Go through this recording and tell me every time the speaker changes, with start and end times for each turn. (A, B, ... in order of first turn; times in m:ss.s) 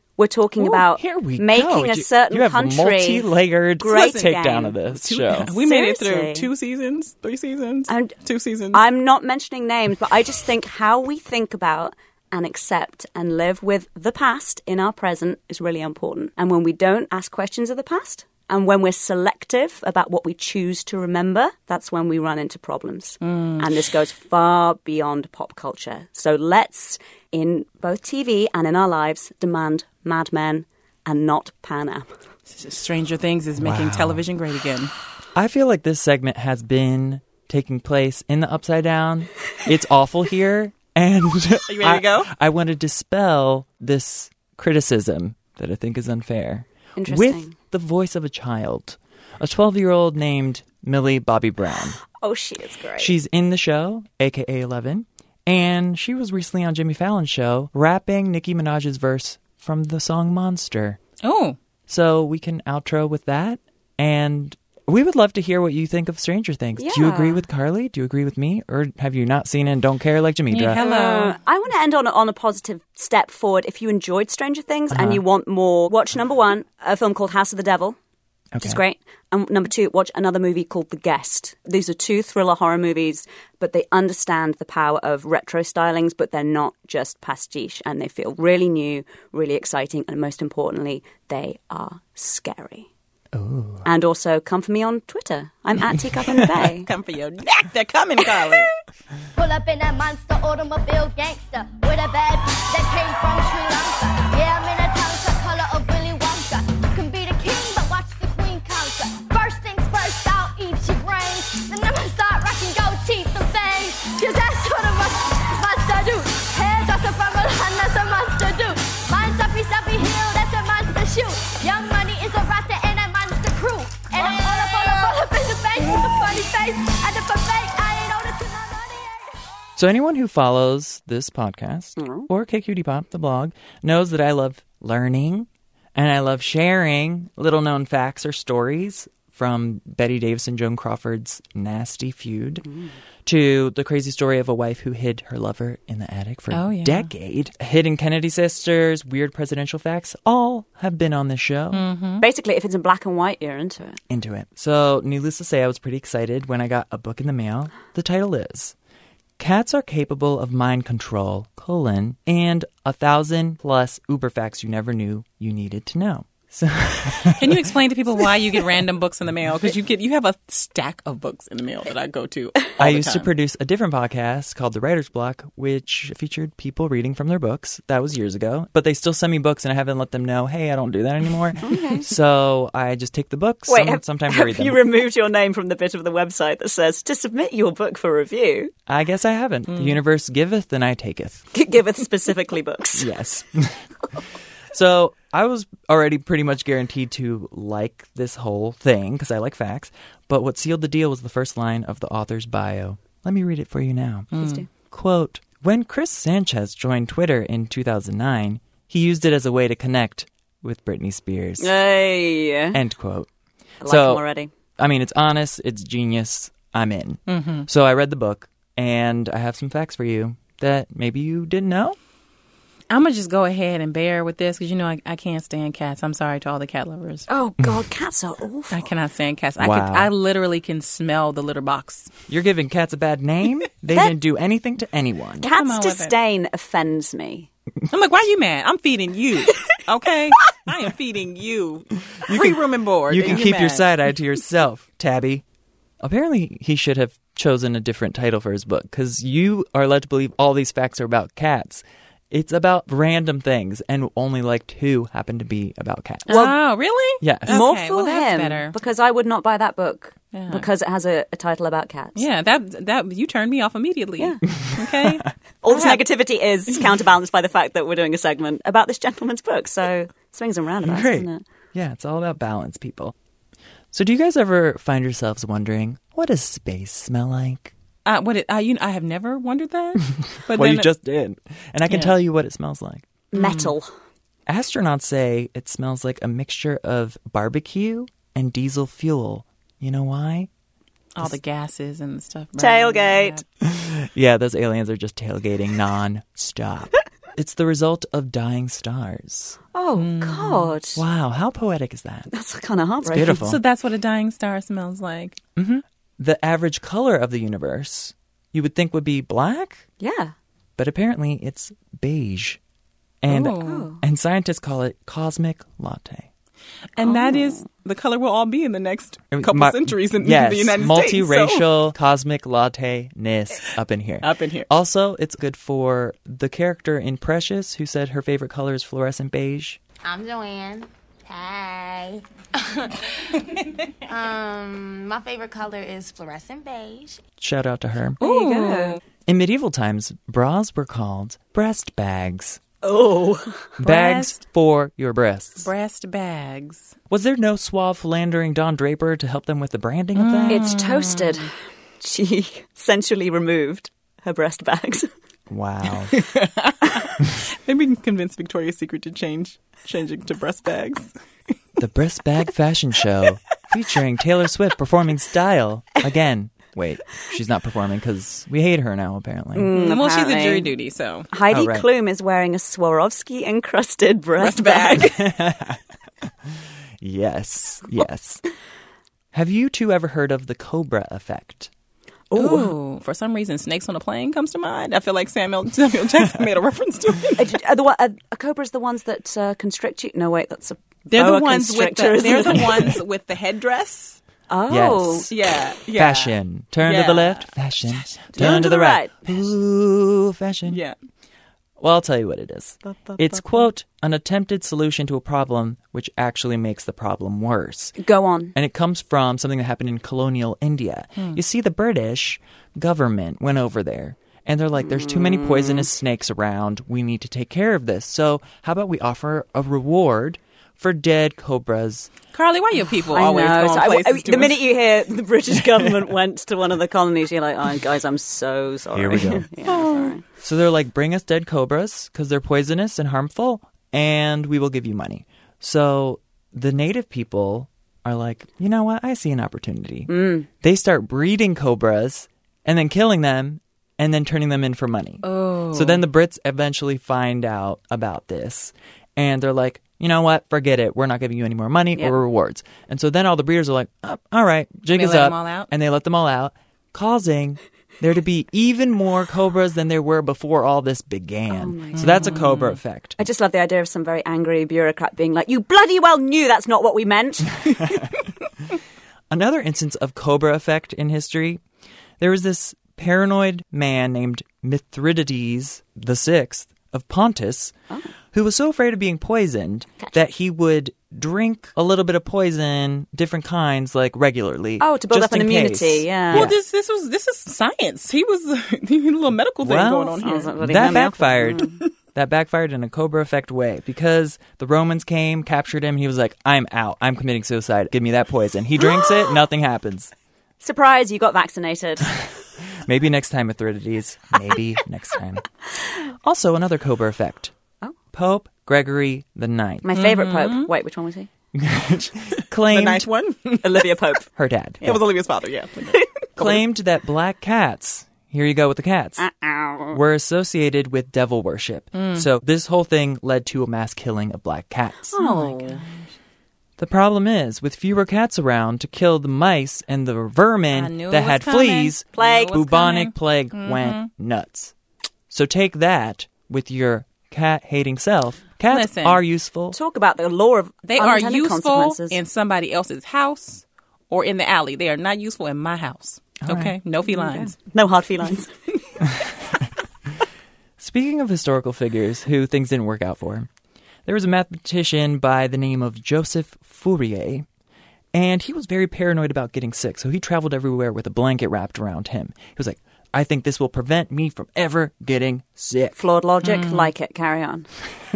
0:00.2-0:03.3 A
0:00.7-0:05.5 B
0:03.8-0:04.8 A
0:03.9-0:08.8 C
0:05.5-0:06.5 A
0:07.9-0:08.1 A
0:08.7-0:32.1 A
0:23.2-0:23.7 C
0:32.5-0:34.9 C
0:33.6-0:34.2 B
0:35.3-0:52.0 B
0:41.7-0:42.3 C
0:47.0-0:47.5 A
0:52.2-0:53.2 A
0:53.0-1:01.0 B
1:01.2-1:01.6 C
1:01.9-1:10.8 B
1:06.8-1:07.4 A
1:10.5-1:11.4 C
1:10.8-1:18.0 A
1:14.9-1:15.2 B
1:18.5-1:18.8 B
1:18.6-1:32.9 A
1:33.3-1:33.9 B
1:33.8-1:36.9 A
1:36.6-1:38.7 C
1:39.4-2:09.4 D
2:09.8-2:22.7 B
2:12.0-2:12.3 A
2:23.2-2:31.8 B
2:26.5-2:27.1 C
2:31.7-2:32.2 C
2:32.2-2:34.0 A
2:34.1-2:38.8 B
2:39.4-2:47.7 B
2:47.4-2:53.3 C
2:52.8-3:04.8 B
3:01.6-3:02.1 A
3:03.7-3:08.7 A
3:08.9-3:11.5 B
3:09.7-3:10.0 C
3:11.5-3:13.1 A
3:13.0-3:13.9 B
3:14.7-3:31.8 B
3:24.3-3:24.6 C
3:24.4-3:24.7 A
3:31.6-3:32.8 A
3:32.7-3:33.3 B
3:33.8-3:34.5 A
3:33.8-3:34.2 B
3:34.8-3:42.0 B
3:37.3-3:37.7 C
3:42.9-3:47.3 C
3:47.3-3:48.9 A
3:48.7-3:52.1 C
3:49.6-3:50.1 B
3:52.3-3:55.5 B
3:55.4-3:57.5 A
3:55.5-3:56.2 C
3:57.9-4:03.9 C
4:02.2-4:05.4 B
4:06.0-4:16.5 B
4:16.3-4:18.7 C
4:16.3-4:16.6 A
4:17.2-4:17.6 B
4:17.5-4:22.3 A
4:20.3-4:20.7 C
4:22.2-4:26.0 C
4:24.9-4:25.2 B
4:25.6-4:31.4 A
4:30.8-4:33.1 B
4:33.9-4:37.7 B
4:38.1-4:40.9 C
4:40.5-4:43.1 B
4:41.9-4:42.2 C
4:43.3-4:43.9 A
4:43.4-4:43.7 C
4:44.5-4:50.5 B
4:51.2-4:53.4 C
4:52.6-4:53.4 A
4:53.6-4:59.6 B
4:59.7-5:01.0 A
5:00.0-5:00.8 C
5:01.0-5:02.3 B
5:02.3-5:03.4 A
5:03.1-5:03.6 B
5:03.1-5:05.4 C
5:05.6-5:09.8 B
5:10.0-5:10.3 A
5:10.8-5:12.6 B
5:13.2-5:16.3 B
5:13.3-5:13.9 C
5:13.6-5:14.0 A
5:17.0-5:21.8 C
5:17.0-5:17.6 A
5:19.3-5:29.8 B
5:24.2-5:24.7 C
5:30.0-5:33.5 E
5:34.1-5:37.2 E
5:37.4-5:38.2 B
5:38.2-5:39.0 C
5:38.2-5:39.0 A
5:39.3-5:42.6 B
5:42.8-5:43.7 A
5:43.8-5:45.7 B
5:43.8-5:44.4 C
5:45.6-5:47.0 C
5:47.1-5:50.8 B
5:50.2-5:51.4 C
5:50.5-5:55.1 A
5:55.5-5:56.2 B
5:56.1-6:01.1 C
6:01.8-6:09.7 B
6:09.6-6:10.7 A
6:09.7-6:11.3 C
6:11.3-6:15.2 A
6:11.5-6:11.9 B
6:14.4-6:15.2 C
6:15.1-6:15.8 B
6:17.0-6:18.4 B
6:19.3-6:21.7 B
6:22.3-6:22.8 A
6:22.4-6:27.5 C
6:27.4-6:33.0 A
6:31.1-6:34.2 C
6:34.5-6:35.3 A
6:34.7-6:35.3 B
6:35.3-6:37.6 C
6:35.9-6:40.8 B
6:38.2-6:38.7 C
6:38.4-6:39.1 A
6:40.7-6:41.0 C
6:41.8-6:48.0 B
6:42.9-6:43.4 A
6:48.0-6:48.6 A
6:48.6-7:02.1 B
6:54.8-6:55.9 A
7:02.3-7:04.7 C
7:03.1-7:10.2 A
7:08.9-7:09.5 B
7:09.7-7:10.2 C
7:10.4-7:43.2 B
7:20.1-7:20.5 A
7:25.2-7:26.0 C
7:34.9-7:35.7 C
7:41.5-7:42.4 A
7:42.0-7:42.8 C
7:43.2-7:47.9 A
7:49.3-7:51.6 B
7:52.2-7:57.7 B
7:58.3-8:06.6 B
8:04.8-8:06.5 A
8:06.3-8:10.6 C
8:09.6-8:20.1 B
8:10.2-8:11.8 A
8:20.6-8:22.2 A
8:22.8-8:27.5 B
8:28.1-8:29.9 B
8:29.8-8:31.3 A
8:29.9-8:30.7 C
8:31.6-8:33.1 B
8:32.6-8:33.9 C
8:33.6-8:34.3 A
8:34.4-8:35.0 B
8:34.8-8:36.6 C
8:36.4-8:39.3 B
8:39.2-8:40.0 A
8:39.9-8:45.2 B
8:41.9-8:42.3 C
8:45.1-8:45.8 A
8:45.2-8:46.1 C
8:46.8-8:54.7 B
8:50.7-8:54.1 C
8:52.2-8:52.5 A
8:55.3-8:59.8 B
8:58.7-8:59.2 C
8:59.7-9:02.2 A
9:00.8-9:07.6 C
9:06.4-9:06.8 B
9:07.1-9:08.6 A
9:10.8-9:13.5 B
9:14.1-9:17.5 B
9:18.1-9:26.0 B
9:26.0-9:27.7 A
9:26.4-9:26.9 C